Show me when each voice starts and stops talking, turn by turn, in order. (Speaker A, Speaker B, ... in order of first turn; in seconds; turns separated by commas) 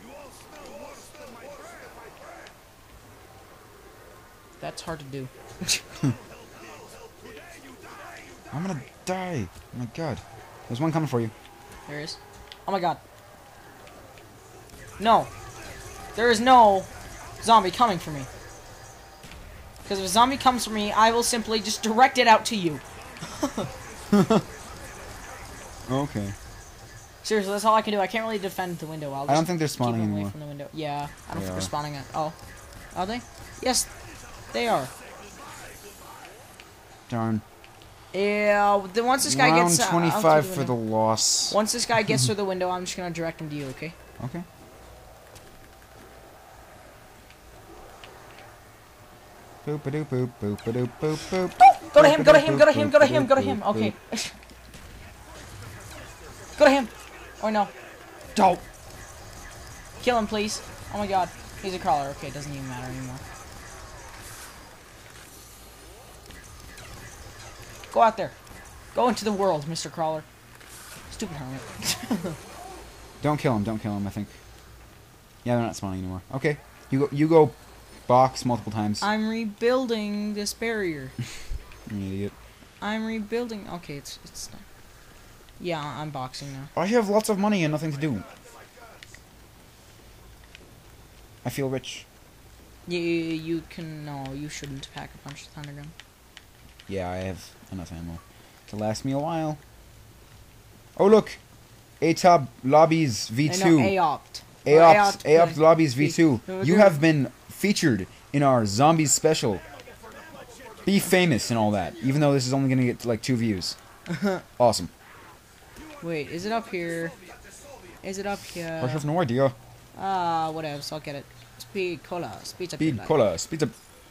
Speaker A: 4.6-5.8, Speaker B: 8.5-11.3, Speaker A: 11.9-13.0, Speaker A: 15.0-15.3, Speaker A: 16.1-16.9, Speaker A: 17.4-18.3, Speaker A: 19.9-23.7, Speaker B: 24.1-24.4, Speaker B: 25.9-26.4, Speaker A: 27.2-32.4, Speaker B: 29.3-30.3, Speaker B: 31.3-31.7, Speaker A: 32.9-33.9, Speaker A: 34.5-34.9, Speaker B: 37.1-37.4, Speaker A: 38.1-40.8, Speaker B: 39.2-41.6, Speaker A: 41.5-44.0, Speaker B: 44.2-44.5, Speaker B: 49.6-53.9, Speaker A: 51.6-54.4, Speaker A: 56.6-57.7, Speaker A: 58.4-58.6, Speaker A: 60.0-63.2, Speaker A: 67.9-68.3, Speaker A: 68.9-70.3, Speaker A: 71.1-72.4, Speaker B: 73.2-74.3, Speaker B: 75.4-77.5, Speaker B: 78.1-79.1, Speaker A: 79.0-81.1, Speaker B: 81.9-82.3, Speaker A: 82.8-84.6, Speaker A: 85.6-86.7, Speaker B: 86.7-88.3, Speaker B: 91.4-92.1, Speaker A: 92.9-95.9, Speaker B: 96.9-99.6, Speaker B: 101.0-101.4, Speaker B: 102.0-104.0, Speaker A: 103.5-107.0, Speaker B: 104.6-109.6, Speaker B: 110.8-113.8, Speaker A: 114.1-114.4, Speaker B: 114.6-114.9, Speaker A: 116.0-117.2, Speaker A: 118.0-119.1, Speaker B: 118.8-119.6, Speaker A: 120.0-123.1, Speaker B: 122.8-123.7